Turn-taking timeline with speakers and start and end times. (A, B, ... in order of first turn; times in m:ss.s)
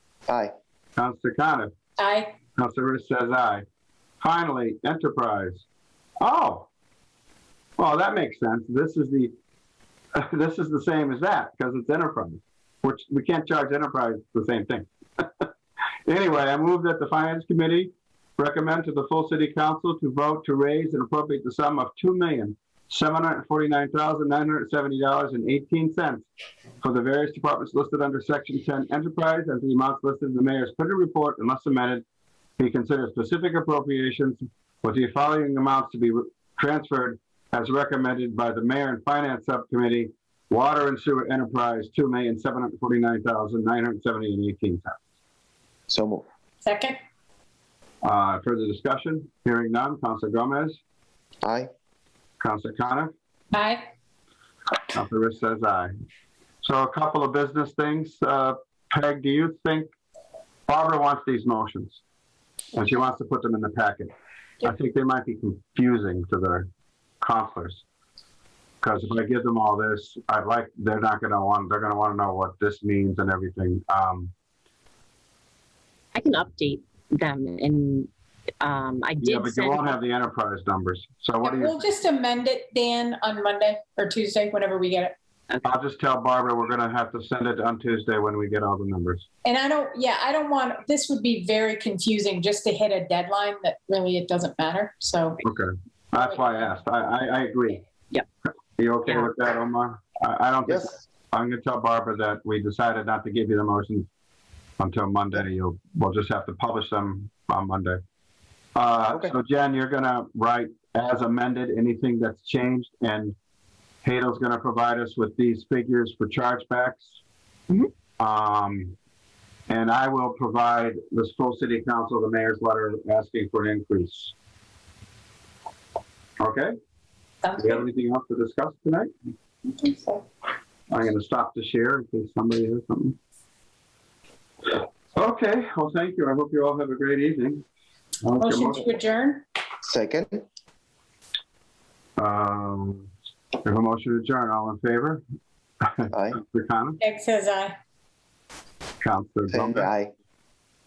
0:00.3-0:00.5 A
0:01.0-0:01.7 B
0:02.0-0:02.4 C
0:02.6-0:03.6 B
0:04.2-0:05.6 B
0:06.2-0:06.7 B
0:07.8-0:09.3 B
0:10.1-0:15.5 B
0:16.0-0:26.3 B
0:26.8-0:32.0 B
0:32.6-0:45.0 B
0:45.9-0:46.3 A
0:46.6-0:47.0 C
0:48.0-0:50.8 B
0:51.4-0:51.7 A
0:52.4-0:53.1 B
0:53.5-0:53.8 C
0:54.9-0:55.9 B
0:56.6-0:59.9 B
1:00.7-1:02.0 B
1:02.7-1:04.1 B
1:04.6-1:06.7 B
1:07.2-1:07.8 B
1:08.8-1:14.3 B
1:16.2-1:19.9 D
1:19.2-1:21.8 B
1:21.4-1:25.2 C
1:25.6-1:29.2 B
1:29.4-1:35.4 C
1:35.4-1:37.8 B
1:38.8-1:44.1 B
1:40.7-1:41.0 A
1:44.8-1:48.0 B
1:48.8-1:53.3 B
1:54.0-1:57.2 B
1:58.2-1:58.9 B
1:59.7-2:04.3 B
2:06.4-2:06.7 B
2:07.4-2:07.8 C
2:07.5-2:09.1 B
2:09.7-2:10.2 C
2:10.9-2:13.2 B
2:15.1-2:17.7 B
2:18.2-2:18.9 B
2:18.4-2:19.4 C
2:19.8-2:20.4 A
2:22.2-2:23.1 B
2:23.6-2:25.2 B
2:25.8-2:27.0 B
2:26.1-2:26.4 A
2:27.0-2:27.8 C
2:29.0-2:29.9 B
2:29.5-2:30.1 A